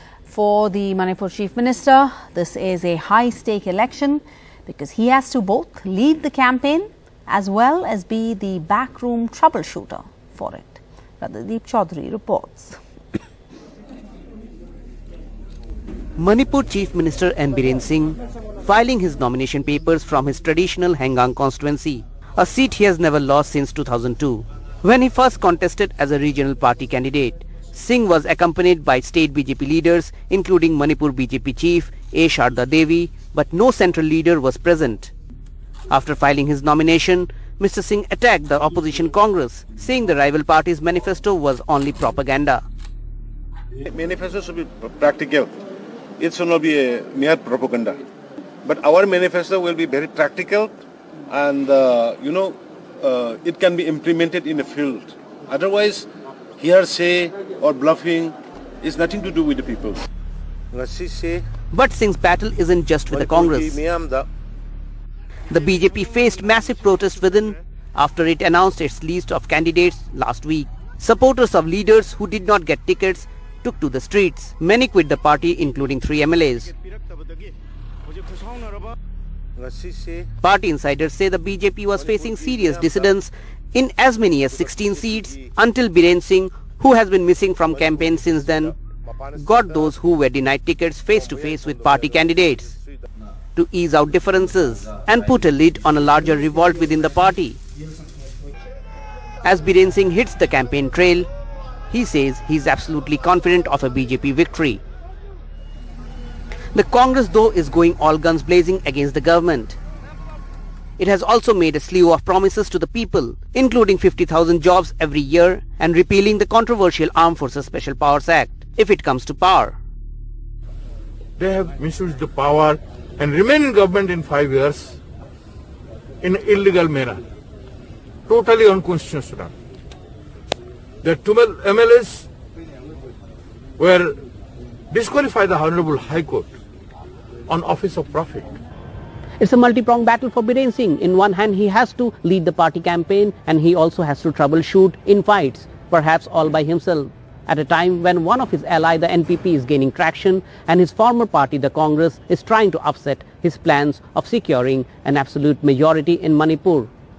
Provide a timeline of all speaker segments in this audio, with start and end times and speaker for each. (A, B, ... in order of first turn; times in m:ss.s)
0:00.3-0:12.8 A
0:16.2-0:35.1 B
0:35.9-0:42.6 B
0:43.9-0:45.5 C
0:46.2-0:48.0 C
0:48.6-0:50.7 C
0:51.3-0:56.1 C
0:56.6-1:00.0 C
1:00.7-1:01.4 C
1:01.7-1:03.8 B
1:03.1-1:04.3 C
1:05.5-1:16.7 B
1:19.6-1:20.3 C
1:20.4-1:28.7 B
1:22.0-1:23.2 C
1:24.5-1:25.5 C
1:27.8-1:30.0 C
1:29.4-1:32.7 B
1:31.1-1:33.0 C
1:33.6-1:37.6 B
1:39.4-1:41.3 B
1:41.9-1:44.8 B
1:46.7-1:49.8 B
1:51.0-1:59.8 B
2:01.4-2:05.0 D
2:06.2-2:07.2 D
2:08.3-2:09.5 D
2:11.0-2:12.3 D
2:13.8-2:14.2 D
2:14.9-2:16.5 D
2:17.5-2:18.5 D
2:19.4-2:36.9 B